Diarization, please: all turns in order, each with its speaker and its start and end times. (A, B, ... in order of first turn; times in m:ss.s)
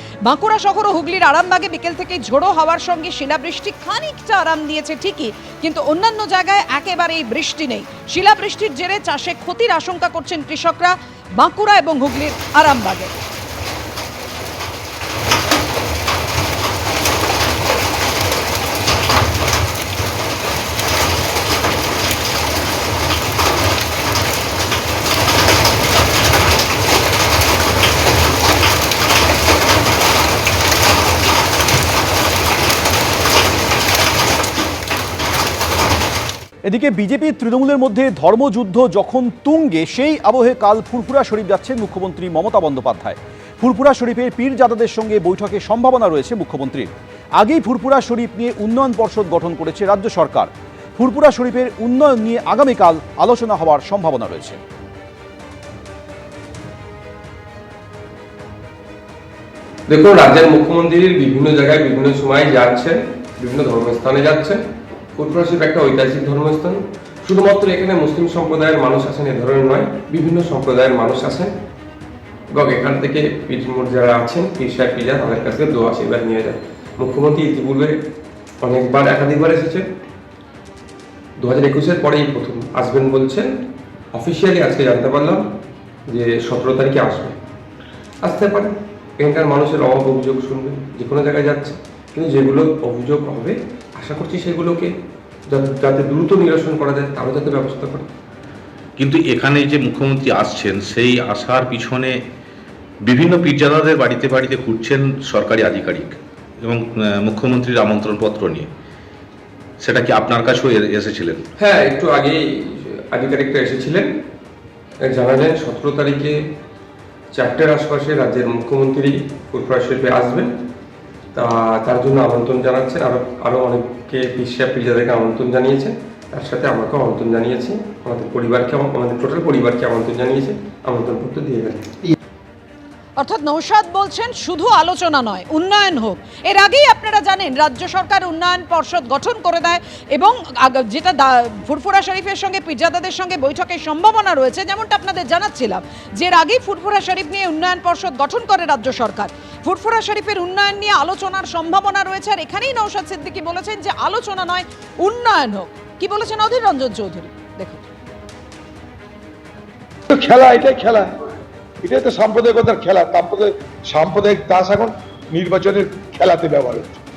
0:00.2-0:13.1 A
0:36.7-0:54.6 B
0:59.9-1:04.6 C
1:05.2-1:11.5 C
1:12.6-1:18.0 C
1:18.6-1:19.9 C
1:21.4-1:23.5 C
1:24.1-1:25.4 C
1:26.1-1:27.4 C
1:28.2-1:34.9 C
1:35.5-1:38.1 C
1:39.0-1:42.1 D
1:43.1-1:48.7 D
1:49.8-1:51.4 D
1:51.6-1:54.1 C
1:55.1-1:56.4 C
1:57.3-2:00.5 C
2:01.3-2:11.9 C
2:13.2-2:37.9 A
2:40.1-2:41.2 E
2:41.8-2:47.0 E